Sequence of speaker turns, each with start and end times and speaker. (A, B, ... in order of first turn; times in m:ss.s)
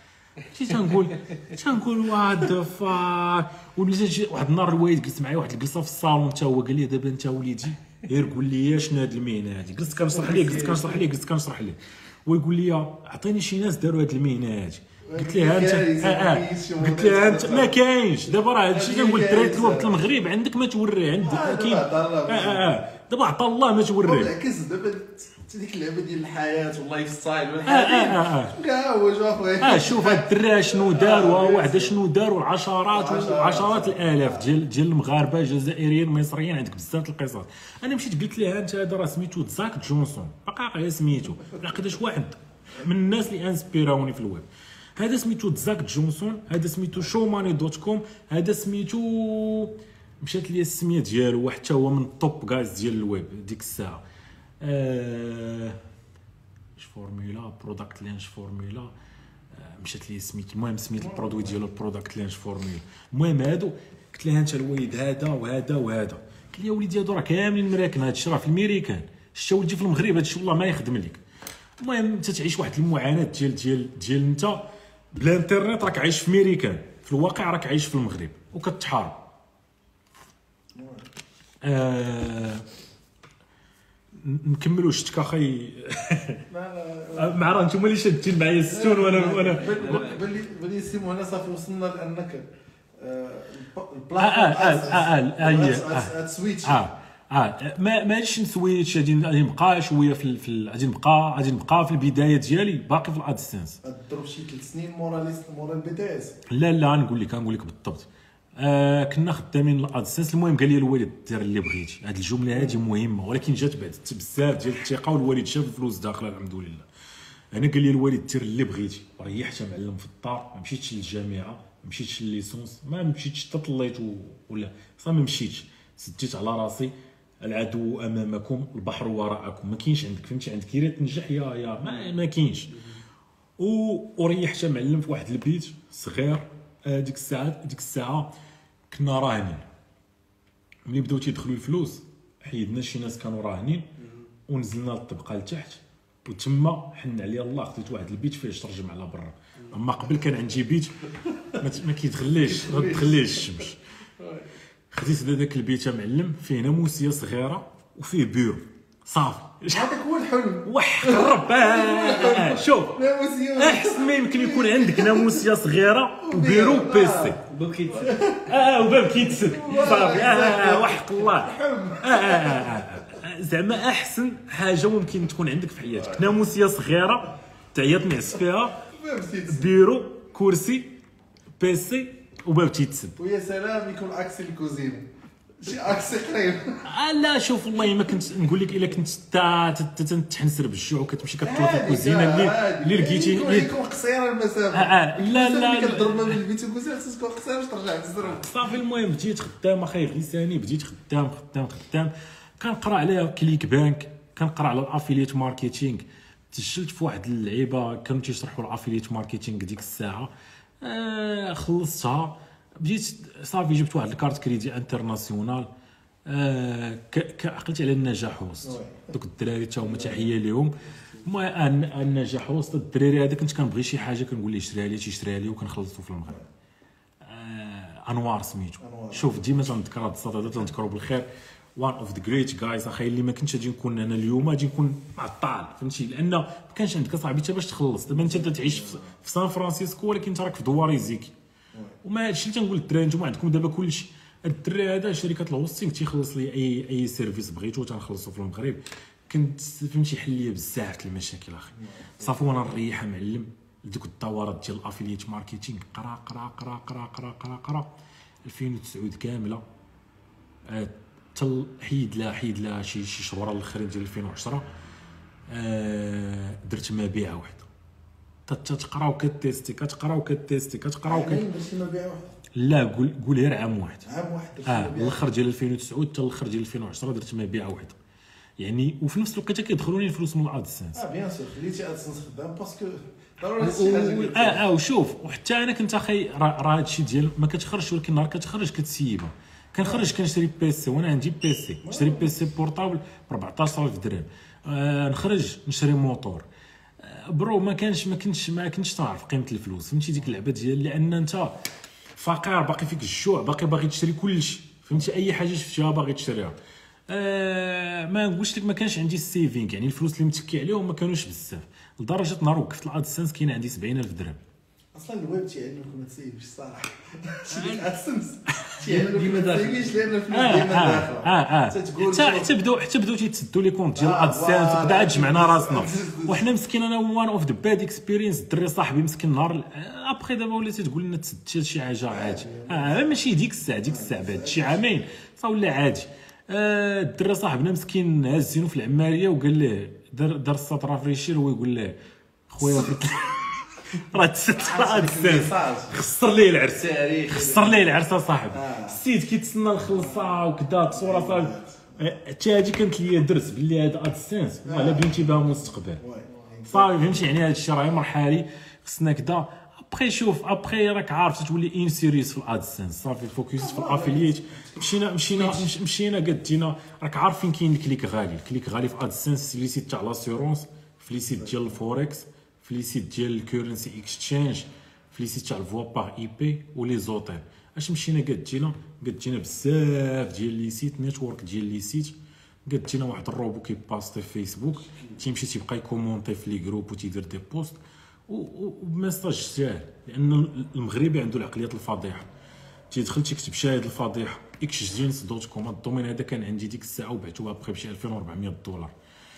0:00.4-0:24.3 A
0:10.0-0:11.0 B
0:15.1-0:17.8 B
0:18.3-0:20.0 B
0:21.2-0:22.8 B
0:24.0-0:32.0 B
0:27.6-0:28.6 A
0:29.6-0:54.0 A
0:32.9-0:34.5 B
0:54.6-0:55.8 A
0:56.8-0:58.9 A
0:59.5-1:11.2 A
1:01.0-1:01.7 B
1:11.8-1:19.2 A
1:20.8-1:21.1 B
1:21.6-1:22.6 A
1:24.2-1:26.4 A
1:26.5-1:27.6 B
1:27.1-1:30.2 A
1:28.7-1:32.5 B
1:33.0-1:36.8 B
1:34.2-1:43.8 A
1:43.8-1:46.4 B
1:46.5-1:56.9 A
1:57.5-2:12.8 A
2:13.6-2:18.3 A
2:18.9-2:19.6 A
2:20.9-2:23.9 A
2:24.5-2:33.8 A
2:32.4-2:33.6 B
2:34.2-2:34.5 B
2:34.9-2:39.9 A
2:39.7-2:45.5 B
2:40.6-2:43.0 A
2:43.6-2:47.4 A
2:46.2-2:47.4 B
2:47.5-2:48.4 C
2:47.9-2:48.5 B
2:48.5-2:58.8 A
2:49.3-2:53.0 B
2:58.8-2:59.8 B
2:59.5-3:01.0 A
3:01.6-3:03.2 A
3:03.2-3:06.8 B
3:06.8-3:13.7 A
3:11.4-3:18.5 B
3:14.7-3:16.4 A
3:18.2-3:35.7 A
3:36.3-3:46.4 A
3:38.6-3:39.1 B
3:39.8-3:40.3 B
3:47.2-4:01.3 A
3:48.8-3:49.4 B
3:58.1-3:59.1 B
4:02.0-4:17.9 A
4:12.0-4:12.5 B
4:18.4-4:19.6 A
4:20.7-4:24.6 A
4:25.5-4:27.7 A
4:28.5-4:31.4 A
4:31.0-4:32.3 B
4:32.6-4:34.1 A
4:34.0-4:35.2 B
4:34.6-4:38.0 A
4:38.6-4:41.0 A
4:40.9-4:44.6 B
4:43.6-4:56.4 A
4:49.8-4:50.1 B
4:51.8-4:52.3 B
4:57.0-5:01.6 A
5:02.2-5:06.6 A
5:07.1-5:14.4 A
5:14.9-5:22.5 B
5:17.5-5:17.9 A
5:18.5-5:18.9 A
5:18.9-5:19.9 C
5:20.3-5:42.0 A
5:24.0-5:26.4 B
5:32.1-5:33.1 B
5:33.8-5:34.8 B
5:42.5-5:56.0 A
5:42.6-5:42.9 B
5:44.6-5:46.0 B
5:46.7-5:48.0 B
5:48.5-5:49.0 B
5:49.9-5:50.3 B
5:50.9-5:52.1 B
5:54.6-5:55.3 B
5:56.0-5:57.3 B
5:56.7-6:32.3 A
6:03.6-6:05.7 B
6:11.4-6:11.8 B
6:32.9-6:38.9 A